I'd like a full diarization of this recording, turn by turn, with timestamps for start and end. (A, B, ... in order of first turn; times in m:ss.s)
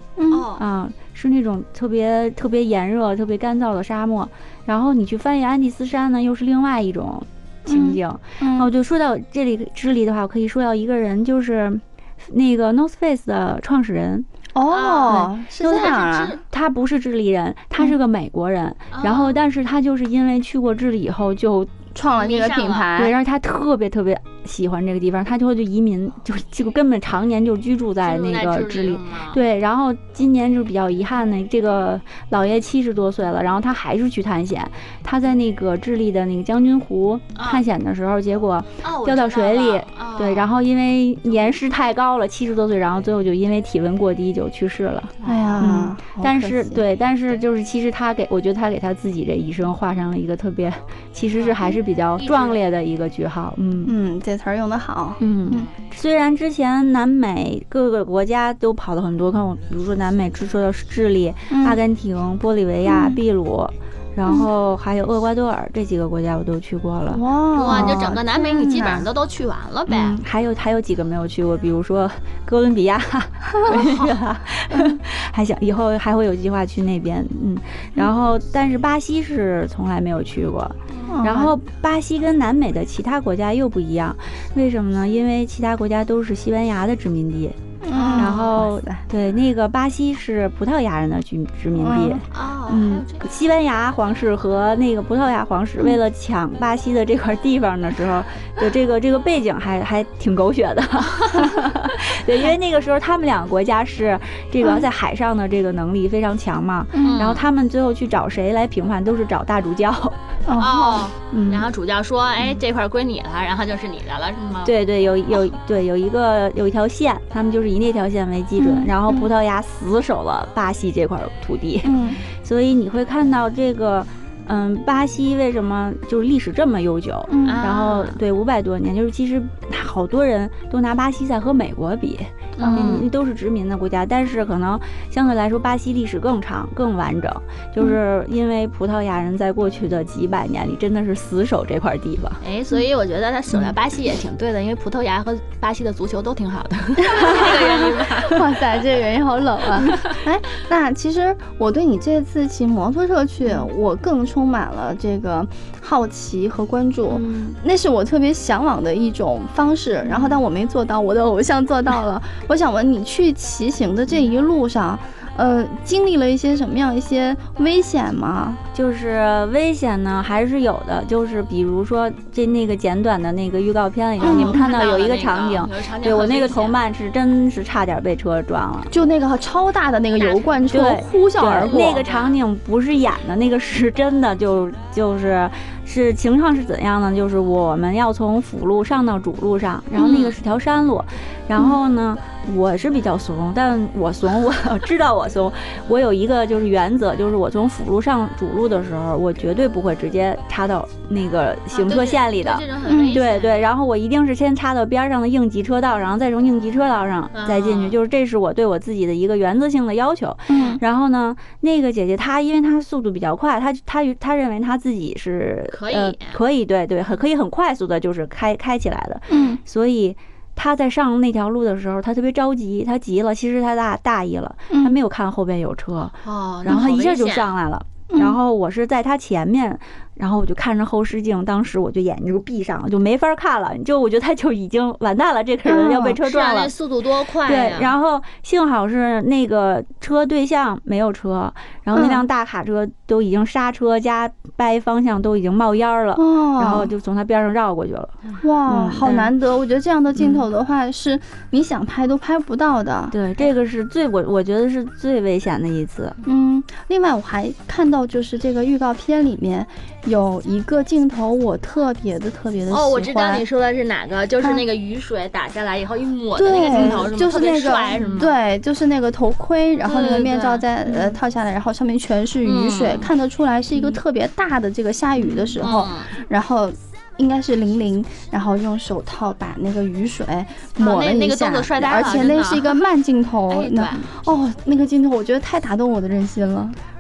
0:00.2-0:00.5 A
0:00.3-0:00.6 B
0:00.6-0:14.3 C
0:07.7-0:08.7 A
0:14.6-0:16.4 A
0:14.7-0:16.4 B
0:16.5-0:21.8 C
0:18.9-0:19.4 B
0:21.9-0:23.1 A
0:22.2-0:22.9 B
0:23.0-0:53.9 C
0:28.0-0:29.4 B
0:37.4-0:37.6 B
0:38.8-0:40.5 B
0:45.2-0:45.7 B
0:45.2-0:46.8 A
0:51.3-0:52.6 B
0:53.8-0:55.7 A
0:55.2-1:07.9 C
1:01.5-1:01.8 A
1:02.9-1:03.2 A
1:07.1-1:09.1 A
1:07.6-1:10.2 B
1:09.9-1:27.6 C
1:14.7-1:15.0 A
1:20.9-1:21.2 B
1:21.1-1:21.6 A
1:27.8-1:29.0 A
1:27.9-1:28.5 B
1:28.2-1:50.2 C
1:31.8-1:32.2 A
1:32.3-1:33.2 B
1:47.0-1:47.2 A
1:47.0-1:47.4 B
1:50.4-1:51.1 A
1:50.6-1:54.7 B
1:51.3-1:51.7 C
1:54.6-2:22.4 C
1:58.6-1:59.3 A
2:01.8-2:02.2 A
2:07.3-2:07.6 A
2:07.4-2:08.2 B
2:12.6-2:13.1 B
2:12.6-2:13.0 A
2:22.4-2:28.5 B
2:27.1-2:48.6 A
2:29.8-2:30.2 B
2:48.7-2:58.9 C
2:54.2-2:56.8 B
2:54.2-2:54.6 A
2:58.9-3:02.0 A
3:00.2-3:00.6 B
3:00.7-3:56.7 C
3:01.5-3:02.4 B
3:10.0-3:10.4 B
3:21.7-3:23.6 B
3:22.9-3:23.2 A
3:27.3-3:28.0 B
3:30.5-3:30.8 A
3:35.7-3:36.4 B
3:39.3-3:39.6 A
3:44.7-3:45.0 A
3:46.2-3:47.5 B
3:48.1-3:48.4 A
3:55.6-3:56.2 A
3:56.2-3:57.9 B
3:57.4-4:09.3 C
4:01.9-4:02.2 A
4:06.2-4:06.9 A
4:08.4-4:13.1 A
4:10.2-4:10.4 C
4:13.1-4:16.2 C
4:16.2-4:23.4 A
4:22.7-4:28.3 B
4:26.4-4:46.8 A
4:29.8-4:31.2 B
4:32.4-4:33.1 B
4:35.3-4:36.1 B
4:40.8-4:42.8 B
4:43.5-4:44.0 B